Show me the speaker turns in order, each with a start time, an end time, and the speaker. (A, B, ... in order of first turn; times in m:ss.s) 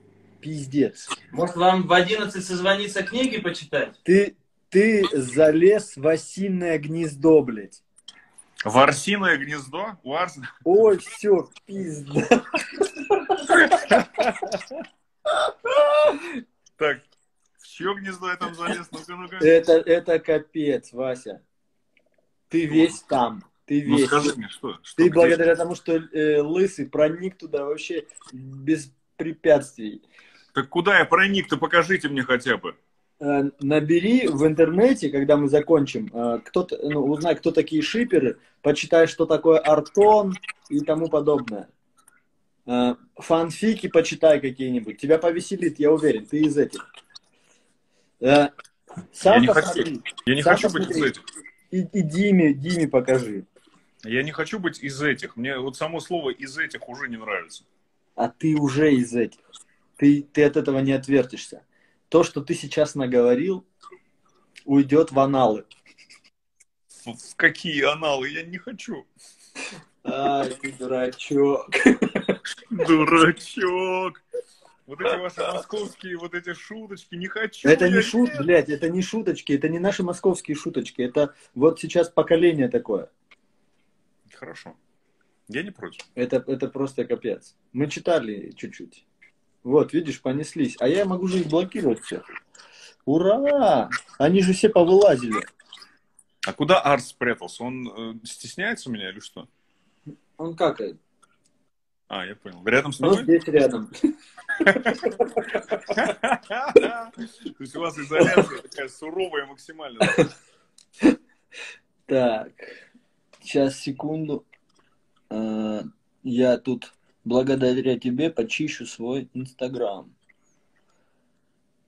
0:00.4-0:01.0 A
0:01.3-0:03.9 B
0:04.0-0:07.8 A
0:08.6-0:10.5 C
0:10.7-0:14.3 A
0:13.5-0:14.5 C
0:15.7-0:16.3 A
0:17.6-0:19.5 C
0:19.4-0:21.4 A
0:22.5-0:24.3 A
0:22.7-0:23.0 C
0:23.9-0:25.5 C
0:25.0-0:30.0 A
0:30.6-0:32.8 C
0:33.2-0:41.7 A
0:42.7-0:46.8 A
0:48.2-0:48.5 A
0:49.1-0:51.1 A
0:49.2-0:51.2 C
0:51.7-0:53.5 A
0:54.0-0:57.7 C
0:58.2-0:59.4 A
1:00.0-1:03.7 A
1:04.7-1:05.7 A
1:07.1-1:09.1 C
1:10.0-1:12.4 A
1:12.7-1:14.2 C
1:14.9-1:18.5 C
1:17.6-1:23.1 A
1:24.3-1:24.8 C
1:25.5-1:26.0 C
1:26.2-1:29.0 A
1:29.6-1:32.2 A
1:33.1-1:35.5 A
1:36.5-1:39.5 C
1:40.4-1:41.0 A
1:42.1-1:43.3 C
1:43.0-1:43.9 A
1:44.6-1:45.9 A
1:44.6-1:45.1 C
1:45.8-1:50.3 C
1:52.1-1:52.7 A
1:53.4-1:54.4 A
1:55.3-2:00.1 A